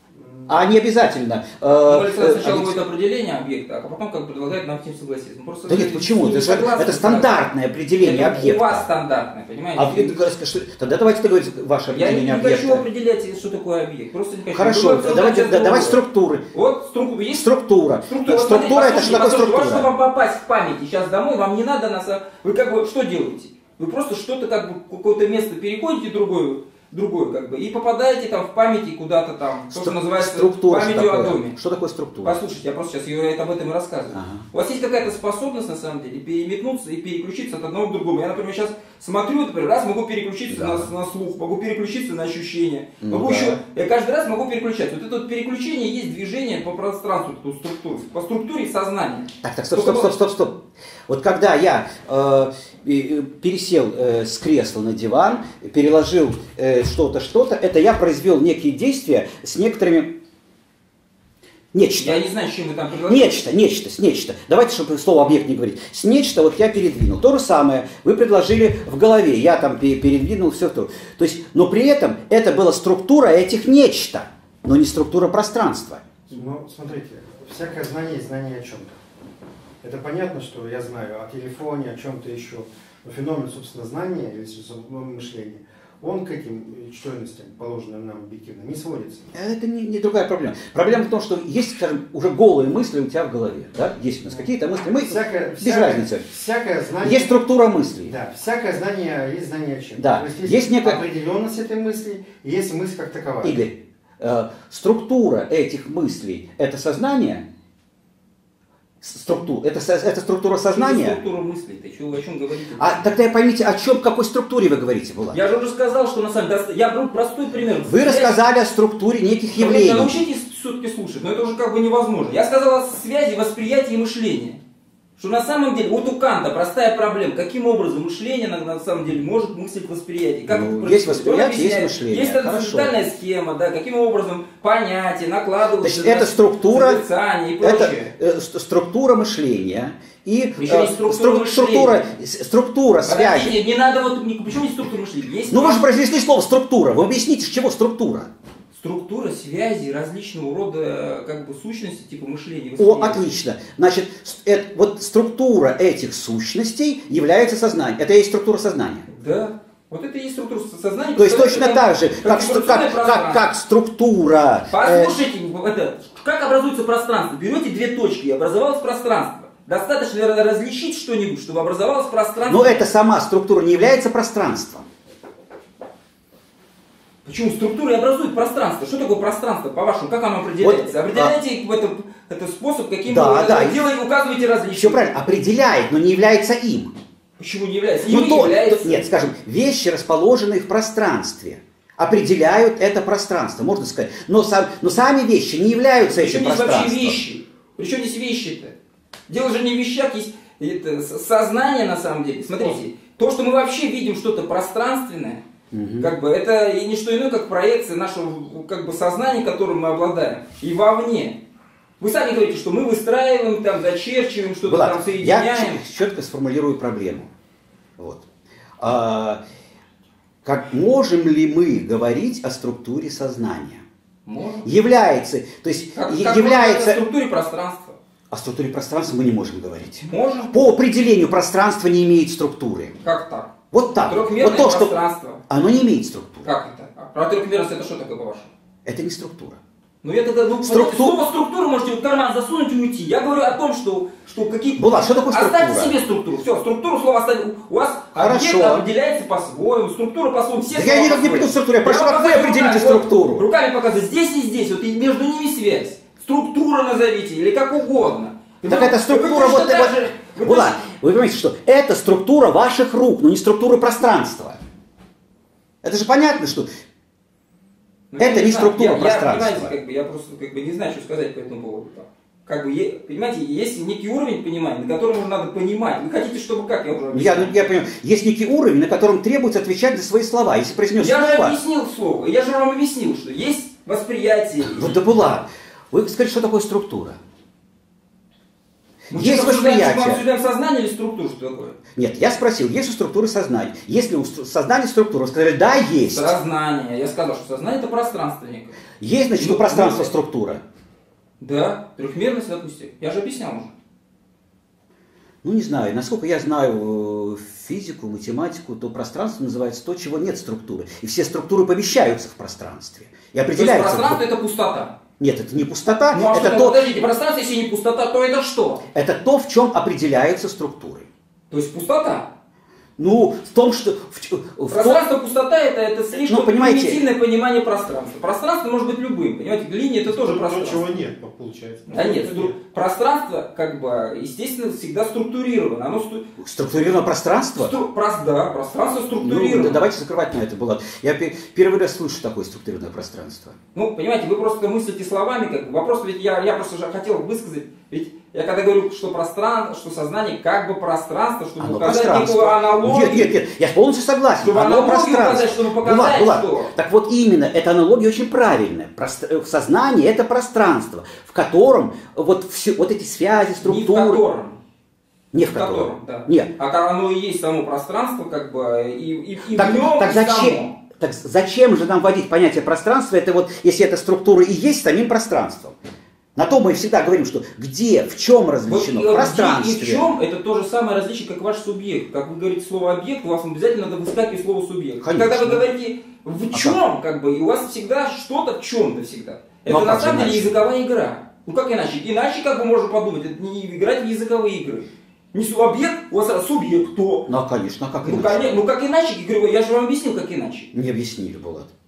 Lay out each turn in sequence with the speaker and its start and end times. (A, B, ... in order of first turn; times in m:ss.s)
0:00.1-0:00.6 A
0:00.5-0:02.8 B
0:01.8-0:07.5 C
0:05.6-0:08.9 B
0:08.0-0:10.2 C
0:09.8-0:12.8 B
0:11.9-0:16.0 C
0:14.5-0:16.4 B
0:16.5-0:17.4 C
0:17.3-0:19.9 B
0:18.1-0:31.6 C
0:29.7-0:32.4 B
0:32.2-0:50.2 C
0:34.1-0:34.5 B
0:40.5-0:40.9 B
0:43.0-0:43.6 B
0:49.4-1:00.2 B
1:01.7-1:02.2 B
1:02.0-1:03.4 C
1:03.1-1:16.0 B
1:16.3-1:19.0 A
1:19.8-1:29.3 A
1:29.3-1:36.2 B
1:35.0-1:37.4 A
1:37.0-1:38.1 B
1:38.0-1:43.6 A
1:40.0-1:41.0 B
1:43.4-1:47.4 B
1:49.0-1:51.2 B
1:50.7-1:53.1 C
1:52.8-1:55.4 B
1:55.3-1:58.3 C
1:57.9-2:00.2 B
1:59.5-2:04.6 C
2:05.2-2:18.1 C
2:10.5-2:12.9 B
2:15.8-2:17.0 B
2:17.6-2:23.6 B
2:20.6-2:22.2 C
2:23.0-2:25.8 C
2:25.5-2:28.3 B
2:28.7-2:33.4 C
2:32.8-2:39.0 B
2:39.1-2:43.4 C
2:41.1-2:45.2 B
2:44.7-2:52.9 C
2:52.5-2:54.9 B
2:57.2-3:05.1 C
3:00.6-3:01.3 B
3:03.0-3:03.8 B
3:04.7-3:06.9 B
3:07.4-3:09.0 C
3:08.1-3:17.2 B
3:16.0-3:18.7 C
3:19.3-3:25.4 C
3:25.7-3:26.1 B
3:26.0-3:31.4 C
3:32.0-3:35.8 C
3:34.6-3:37.3 B
3:38.0-3:38.2 B
3:38.8-3:39.4 B
3:40.4-3:43.8 B
3:44.2-3:44.7 C
3:44.6-3:47.0 B
3:45.9-3:48.0 C
3:48.3-3:53.0 B
3:50.0-3:50.7 C
3:53.0-3:53.5 C
3:53.7-3:54.9 B
3:54.0-3:55.4 C
3:55.5-3:56.5 B
3:56.4-3:58.5 C
3:58.8-3:59.6 B
4:00.0-4:20.8 C
4:00.6-4:01.2 B
4:04.8-4:06.0 B
4:08.2-4:08.8 B
4:10.7-4:13.4 B
4:18.6-4:24.6 B
4:25.8-4:26.7 B
4:28.1-4:37.5 C
4:28.2-4:29.7 B
4:37.1-4:41.6 B
4:41.0-4:45.0 C
4:44.7-4:47.2 B
4:49.1-4:51.8 C
4:49.1-4:50.2 B
4:52.0-4:56.3 B
4:56.1-4:58.8 C
4:59.0-5:00.6 B
4:59.4-5:00.1 C
5:01.4-5:03.7 C
5:05.4-5:14.2 B
5:13.5-5:15.0 C
5:15.2-5:16.8 B
5:16.1-5:18.8 C
5:18.9-5:21.1 B
5:21.5-5:22.3 C
5:23.0-5:25.0 B
5:24.7-5:30.8 C
5:26.2-5:27.0 B
5:30.1-5:32.6 A
5:31.9-5:36.3 C
5:36.4-5:37.7 B
5:37.6-5:39.8 C
5:39.2-5:43.6 B
5:43.7-5:53.3 C
5:51.6-6:04.2 B
5:54.4-5:56.7 C
6:03.6-6:04.6 C
6:05.3-6:06.5 B
6:05.5-6:10.7 C
6:09.5-6:15.8 B
6:16.3-6:20.1 B
6:18.7-6:37.3 C
6:25.0-6:25.6 B
6:26.5-6:26.8 B
6:29.7-6:30.6 B
6:37.3-6:38.5 B
6:38.0-6:40.7 C
6:40.7-6:41.7 B